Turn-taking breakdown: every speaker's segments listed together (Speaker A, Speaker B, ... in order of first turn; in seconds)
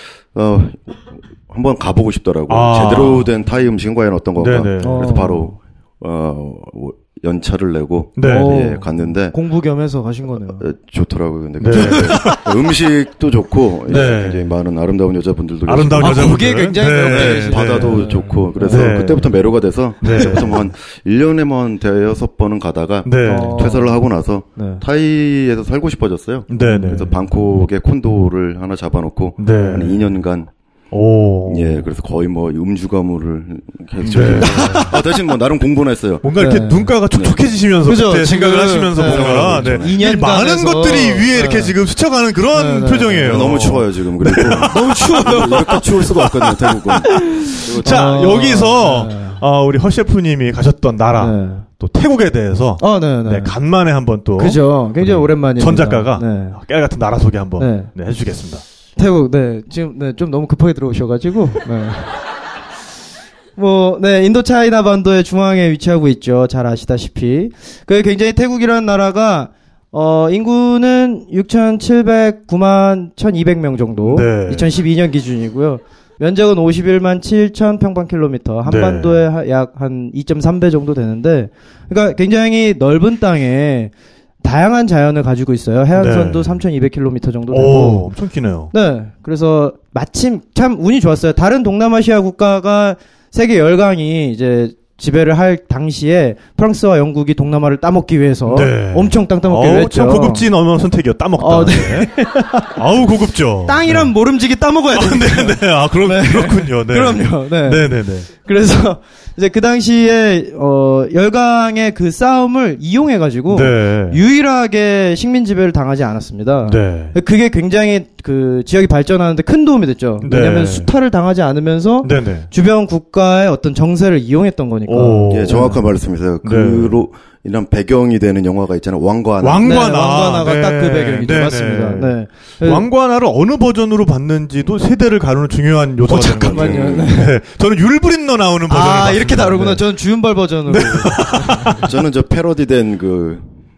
Speaker A: 0.3-9.3, 10.6-30.5, 31.5-36.3, 37.1-37.4, 39.0-40.0, 43.2-48.3, 125.3-129.8, 136.4-137.2, 141.8-143.4
Speaker B: 2.5-3.3, 4.4-5.2, 8.2-8.6, 11.6-12.5, 13.9-14.5, 15.7-19.4, 20.0-20.7, 23.1-23.7, 26.5-27.2, 29.4-30.0, 30.9-31.9, 34.0-35.0, 36.2-45.0, 47.7-58.6, 74.1-74.7, 78.7-79.2, 86.0-86.6, 87.5-88.7, 98.5-104.1, 104.9-108.3, 113.5-114.2, 116.7-117.2, 120.2-120.9, 122.0-122.5, 124.9-125.7, 126.4-127.0, 129.4-139.8, 140.7-141.9
Speaker C: 4.8-5.5, 8.2-10.7, 11.7-12.3, 16.0-18.9, 23.2-24.0, 24.6-24.8, 26.6-27.0, 34.1-34.9, 36.4-36.9, 37.9-41.7, 42.5-43.6, 44.3-49.4, 51.2-51.6, 52.8-53.5, 54.4-56.6, 57.6-57.9, 59.0-62.2, 63.6-83.9, 84.4-88.1, 88.7-100.5, 101.4-102.8, 103.7-125.8, 129.6-132.9, 136.1-137.3, 138.7-141.8